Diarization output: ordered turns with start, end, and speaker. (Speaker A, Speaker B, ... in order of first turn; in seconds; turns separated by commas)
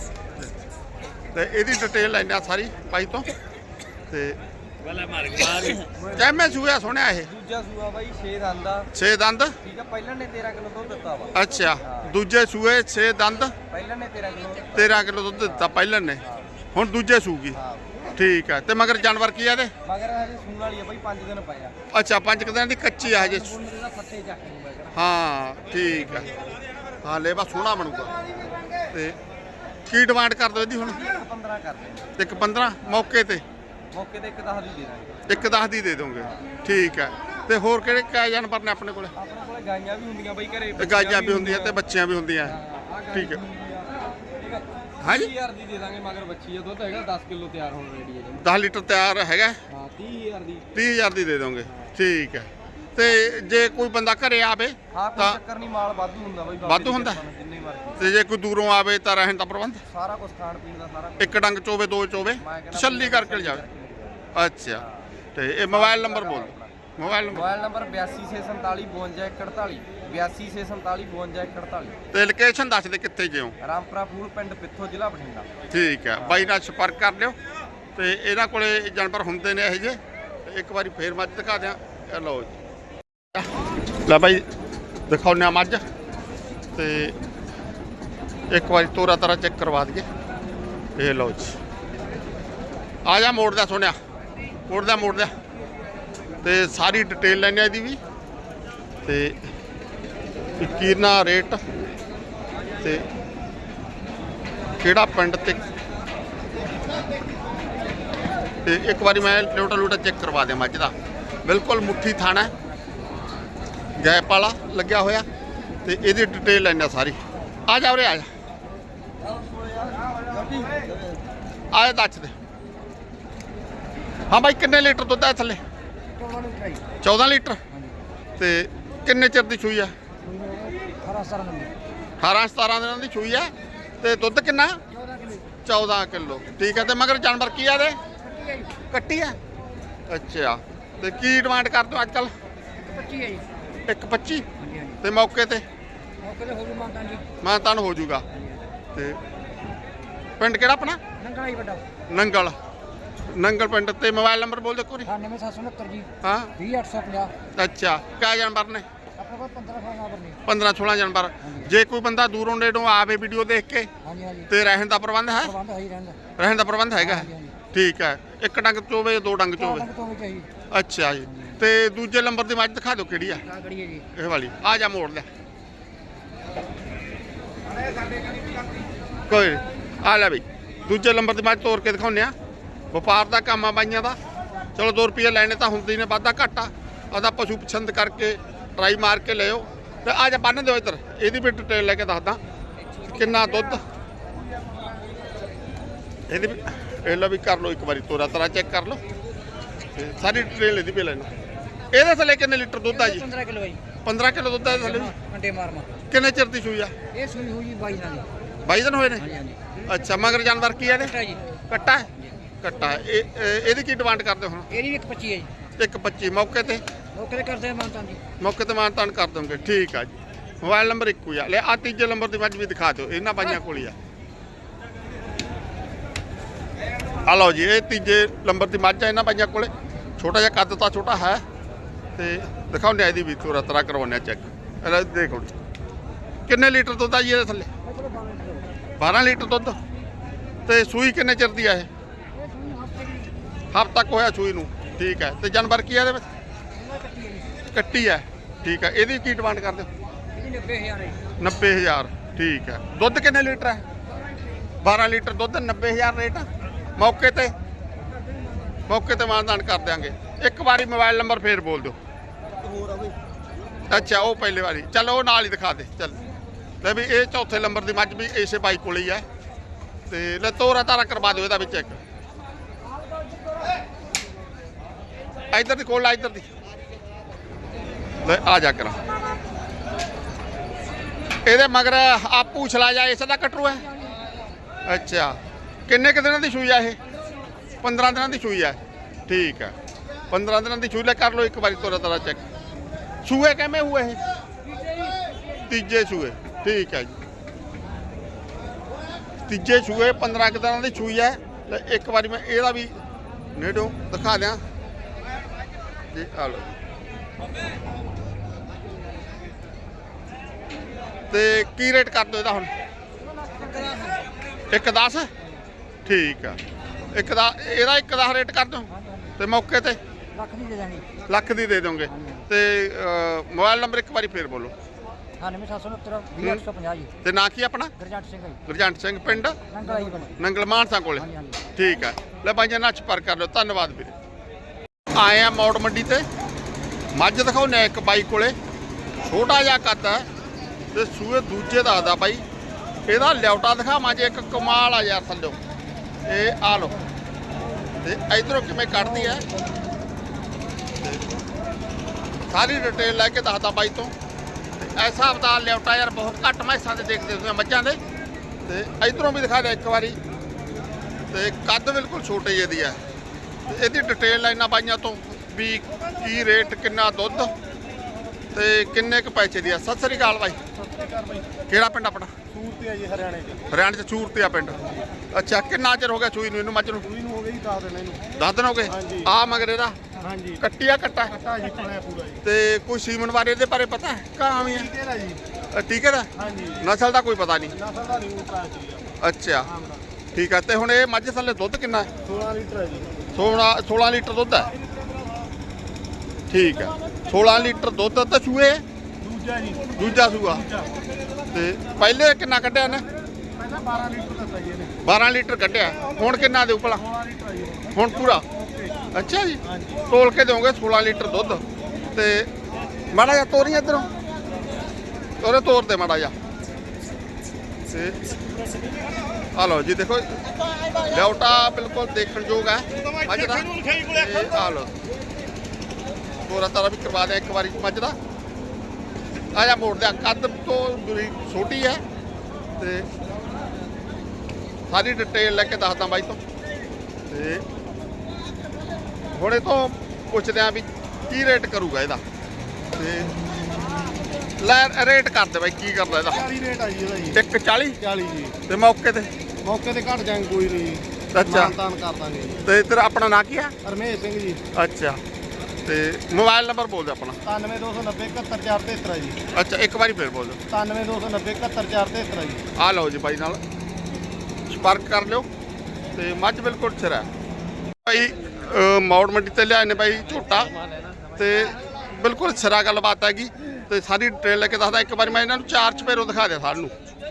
Speaker A: 1.3-3.3, Speaker A: 4.1-4.4, Speaker A: 5.2-7.3, Speaker B: 5.8-6.4, Speaker B: 7.2-8.9, Speaker A: 8.9-9.6, Speaker B: 9.6-12.1, Speaker A: 11.3-13.5, Speaker B: 13.7-14.9, Speaker A: 14.8-16.2, Speaker B: 15.4-15.7, Speaker B: 16.2-16.5, Speaker A: 16.7-17.6, Speaker B: 17.6-17.9, Speaker A: 18.2-19.7, Speaker B: 19.9-21.8, Speaker A: 21.9-23.6, Speaker B: 23.1-25.0, Speaker A: 24.9-26.3, Speaker A: 27.0-28.2, Speaker A: 28.9-29.2, Speaker A: 29.9-31.0, Speaker B: 30.9-32.1, Speaker A: 32.2-33.4, Speaker B: 33.9-35.2, Speaker A: 35.3-39.1, Speaker B: 39.2-41.8, Speaker A: 40.8-42.6, Speaker B: 42.5-48.5, Speaker A: 43.1-43.4, Speaker A: 45.0-45.3, Speaker A: 48.4-49.6, Speaker B: 49.7-50.7, Speaker A: 50.7-55.4, Speaker B: 54.9-58.0, Speaker A: 56.6-57.2, Speaker A: 58.0-59.8, Speaker B: 59.9-61.4, Speaker A: 61.2-63.6, Speaker B: 62.4-64.3, Speaker A: 64.3-64.8, Speaker A: 65.3-67.5, Speaker B: 65.7-66.7, Speaker B: 67.3-72.0, Speaker A: 72.1-73.5, Speaker B: 73.6-75.5, Speaker A: 75.7-77.4, Speaker B: 76.2-76.5, Speaker A: 78.0-82.6, Speaker A: 84.0-84.5, Speaker A: 85.1-85.8, Speaker A: 86.8-87.2, Speaker A: 88.5-90.1, Speaker A: 91.0-91.6, Speaker A: 93.0-94.0, Speaker A: 94.7-95.3, Speaker A: 96.4-98.0, Speaker A: 99.0-99.5, Speaker A: 100.6-101.6, Speaker A: 102.8-103.0, Speaker A: 104.8-105.6, Speaker A: 108.7-112.5, Speaker A: 114.0-115.3, Speaker A: 115.8-118.3, Speaker B: 119.4-121.2, Speaker A: 121.7-122.3, Speaker A: 124.3-125.6, Speaker C: 126.2-126.8, Speaker A: 127.0-127.6, Speaker A: 128.4-129.9, Speaker C: 130.3-131.7, Speaker A: 132.2-134.8, Speaker C: 134.9-135.4, Speaker A: 135.7-138.0, Speaker C: 138.3-138.7, Speaker A: 138.9-139.4, Speaker A: 140.1-142.3, Speaker C: 142.8-143.5, Speaker A: 143.9-144.5, Speaker C: 144.6-144.9, Speaker A: 145.0-145.6, Speaker C: 146.2-147.3, Speaker A: 147.4-148.3, Speaker A: 148.9-149.2, Speaker A: 150.4-151.0, Speaker C: 151.2-151.8, Speaker A: 152.1-152.6, Speaker A: 153.3-155.1, Speaker C: 155.1-157.3, Speaker A: 156.2-156.6, Speaker A: 157.5-158.9, Speaker C: 159.2-160.4, Speaker A: 160.4-163.9, Speaker C: 164.1-164.5, Speaker A: 164.5-165.6, Speaker C: 165.5-166.2, Speaker A: 166.4-169.9, Speaker C: 167.1-167.5, Speaker C: 169.6-170.5, Speaker A: 170.7-173.5, Speaker C: 173.5-174.1, Speaker A: 174.1-175.3, Speaker A: 179.3-182.3, Speaker A: 182.9-184.2, Speaker A: 184.8-192.4, Speaker A: 193.0-193.8, Speaker A: 196.3-199.0, Speaker A: 199.9-201.3, Speaker A: 201.9-203.3, Speaker C: 203.0-203.8, Speaker A: 204.0-205.2, Speaker C: 204.9-205.9, Speaker A: 206.1-206.9, Speaker C: 207.1-208.3, Speaker A: 208.7-209.3, Speaker C: 209.2-209.6, Speaker A: 209.8-214.8, Speaker C: 214.7-215.5, Speaker A: 215.8-216.8, Speaker C: 217.2-218.2, Speaker A: 218.4-224.0, Speaker A: 227.2-231.4, Speaker A: 232.2-235.5, Speaker A: 236.5-237.7, Speaker C: 238.0-238.6, Speaker A: 239.0-239.8, Speaker A: 240.7-241.9, Speaker C: 242.5-243.3, Speaker A: 243.7-246.2, Speaker C: 246.8-247.5, Speaker A: 247.7-249.9, Speaker C: 250.3-251.2, Speaker A: 251.4-253.8, Speaker A: 254.8-257.5, Speaker A: 258.9-262.0, Speaker B: 262.8-263.1, Speaker A: 263.9-266.2, Speaker A: 266.8-269.2, Speaker A: 270.1-272.0, Speaker A: 275.5-276.5, Speaker A: 278.2-279.0, Speaker A: 281.5-283.9, Speaker A: 284.9-287.0, Speaker A: 287.8-289.7, Speaker A: 290.3-292.4, Speaker A: 293.2-294.2, Speaker A: 295.7-297.1, Speaker A: 299.5-303.0, Speaker A: 303.6-304.6, Speaker A: 306.1-306.8, Speaker A: 311.3-312.7, Speaker C: 313.5-314.2, Speaker A: 314.7-315.3, Speaker A: 316.1-316.6, Speaker A: 317.1-320.0, Speaker C: 320.4-321.1, Speaker A: 321.3-324.7, Speaker C: 325.4-327.1, Speaker A: 326.4-326.6, Speaker A: 327.2-327.9, Speaker C: 328.0-328.6, Speaker A: 328.7-334.1, Speaker C: 329.7-330.3, Speaker C: 331.3-331.6, Speaker A: 335.1-336.2, Speaker A: 337.1-338.6, Speaker A: 339.2-340.3, Speaker A: 340.9-342.4, Speaker A: 343.1-345.6, Speaker A: 346.3-347.0, Speaker A: 348.0-349.5, Speaker A: 352.5-354.1, Speaker A: 354.8-358.0, Speaker A: 358.7-360.2, Speaker A: 361.3-363.0, Speaker A: 363.7-367.5, Speaker A: 368.5-370.6, Speaker D: 370.9-371.5, Speaker A: 371.7-372.3, Speaker D: 372.5-373.7, Speaker A: 373.7-374.8, Speaker A: 375.3-377.1, Speaker D: 377.1-378.2, Speaker A: 378.3-380.0, Speaker D: 379.0-379.3, Speaker D: 380.3-380.6, Speaker A: 380.6-381.4, Speaker D: 381.3-382.4, Speaker A: 382.4-384.9, Speaker D: 384.9-385.4, Speaker A: 385.7-387.8, Speaker D: 386.4-386.8, Speaker D: 387.8-389.1, Speaker A: 389.2-389.7, Speaker A: 390.3-392.1, Speaker D: 392.2-393.2, Speaker A: 393.3-394.7, Speaker A: 396.5-398.8, Speaker D: 399.2-399.9, Speaker A: 399.9-400.7, Speaker A: 401.5-403.1, Speaker D: 403.6-404.9, Speaker A: 405.0-407.1, Speaker D: 407.1-408.0, Speaker A: 407.9-408.4, Speaker D: 408.5-408.9, Speaker A: 409.1-412.5, Speaker D: 409.7-410.0, Speaker A: 413.1-414.1, Speaker A: 415.4-416.3, Speaker A: 417.9-418.4, Speaker A: 419.6-424.9, Speaker A: 426.4-428.2, Speaker A: 429.5-432.0, Speaker A: 432.8-433.1, Speaker A: 434.9-436.4, Speaker A: 437.3-437.6, Speaker A: 439.3-442.2, Speaker A: 443.0-443.4, Speaker A: 444.6-446.4, Speaker D: 446.4-447.4, Speaker A: 447.3-448.0, Speaker D: 448.0-448.6, Speaker A: 448.6-449.3, Speaker D: 449.6-452.6, Speaker A: 451.3-451.8, Speaker A: 452.6-453.7, Speaker D: 453.9-454.6, Speaker A: 454.7-455.2, Speaker A: 455.9-457.4, Speaker D: 457.4-459.4, Speaker A: 459.5-460.6, Speaker D: 460.7-462.6, Speaker A: 462.8-463.6, Speaker A: 464.7-465.5, Speaker A: 466.1-467.3, Speaker A: 468.1-470.7, Speaker A: 471.4-476.9